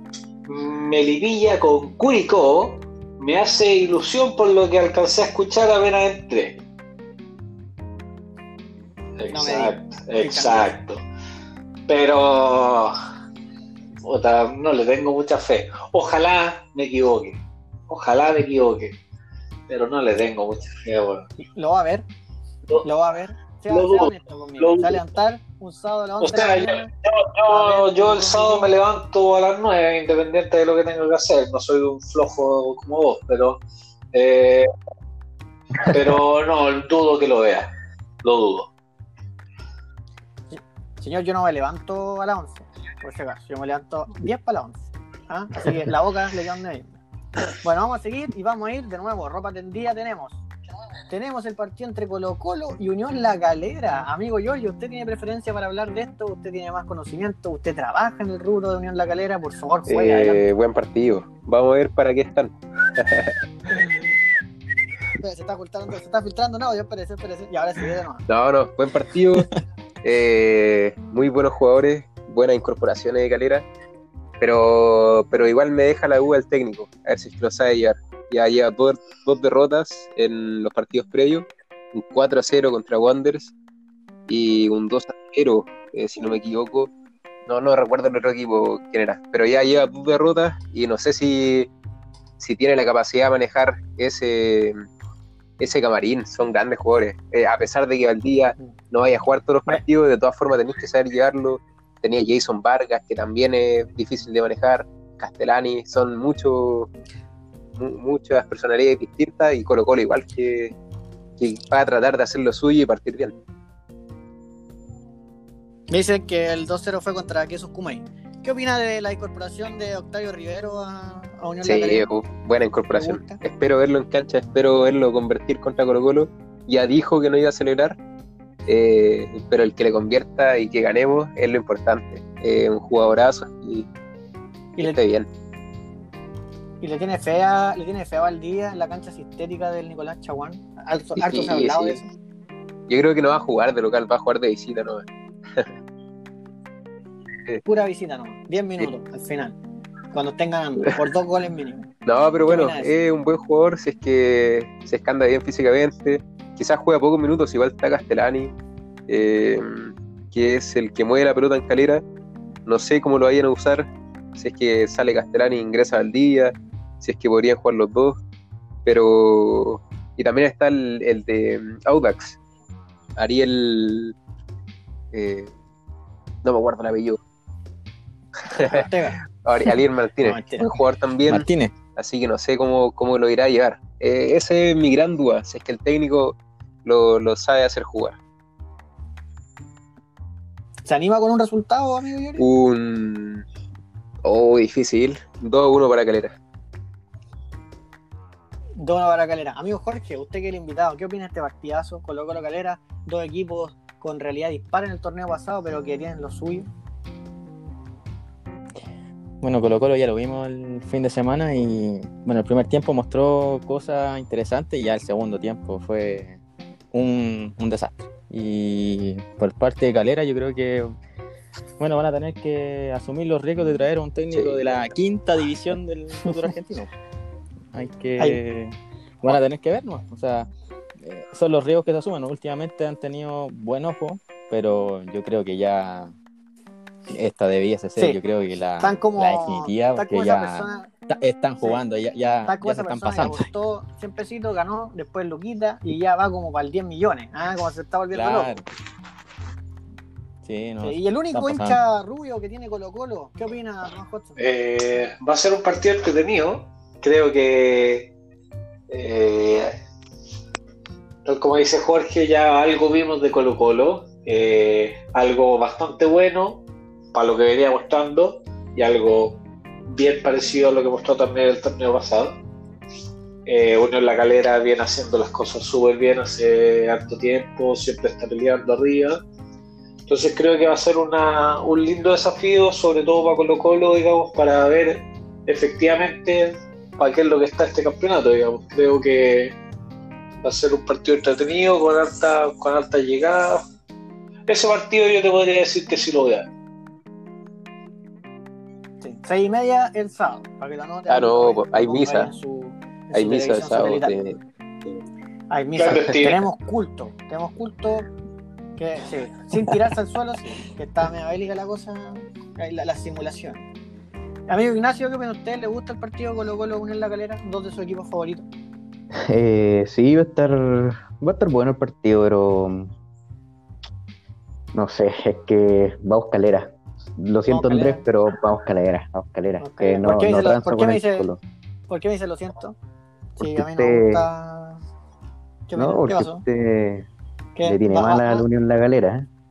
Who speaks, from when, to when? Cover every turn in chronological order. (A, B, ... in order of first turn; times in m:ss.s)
0:00.5-0:06.6 A
0:09.2-0:11.0 A
0:09.3-0:10.8 B
0:11.9-0:13.0 A
0:14.0-0:19.0 A
0:19.7-0:21.3 A
0:21.4-0:22.1 B
0:22.8-0:26.9 B
0:23.7-0:25.0 A
0:26.2-0:33.6 A
0:27.5-0:28.7 B
0:34.1-0:34.7 A
0:35.8-0:37.7 A
0:38.2-0:38.7 A
0:40.5-0:46.9 B
0:47.6-0:50.4 B
0:51.1-1:00.4 B
0:59.9-1:03.4 C
1:05.2-1:08.2 B
1:08.3-1:09.5 C
1:10.0-1:13.6 C
1:14.4-1:23.5 C
1:24.3-1:26.9 C
1:27.5-1:31.7 C
1:32.4-1:34.8 C
1:35.6-1:46.9 C
1:47.8-1:50.7 C
1:51.4-1:53.4 C
1:55.9-2:02.1 B
2:01.6-2:08.0 C
2:02.9-2:03.4 B
2:08.7-2:13.9 C
2:14.8-2:15.3 C
2:16.8-2:22.1 B
2:21.2-2:22.0 C
2:22.9-2:25.7 C
2:27.6-2:29.6 B
2:30.1-2:31.9 B
2:32.0-2:38.5 C
2:32.4-2:32.9 B
2:39.1-2:42.0 C
2:42.7-2:48.2 C
2:48.8-2:52.4 C
2:53.2-2:54.1 C
2:55.1-2:55.5 C
2:56.4-2:57.2 C
2:58.5-3:08.2 C
2:58.5-2:59.2 B
3:00.2-3:00.7 B
3:01.3-3:01.7 D
3:10.9-3:12.4 B
3:12.4-3:13.4 C
3:14.2-3:16.3 C
3:18.8-3:26.7 B
3:29.4-3:36.4 D
3:36.9-3:41.0 D
3:41.8-3:46.9 D
3:44.3-3:44.9 C
3:47.7-3:50.5 D
3:51.0-3:56.1 D
3:57.1-4:03.5 D
3:58.8-4:00.9 B
4:02.5-4:08.6 B
4:08.1-4:08.6 D
4:10.4-4:11.8 D
4:10.8-4:14.4 B
4:14.4-4:18.1 A
4:18.9-4:19.8 A
4:21.2-4:26.6 A
4:27.1-4:32.4 A
4:33.5-4:39.2 A
4:40.1-4:49.6 A
4:50.4-4:53.6 A
4:54.5-4:56.5 A
4:59.0-5:04.2 B
5:01.1-5:02.3 C
5:03.1-5:05.0 C
5:05.5-5:08.1 B
5:05.8-5:06.4 A
5:08.8-5:13.6 B
5:14.5-5:18.5 B
5:19.1-5:22.9 E
5:24.7-5:31.4 E
5:27.5-5:28.0 B
5:29.6-5:31.3 B
5:31.9-5:32.8 B
5:33.4-5:34.8 B
5:33.4-5:34.3 E
5:35.7-5:36.4 B
5:35.8-5:37.1 E
5:37.6-5:38.4 B
5:37.6-5:39.3 E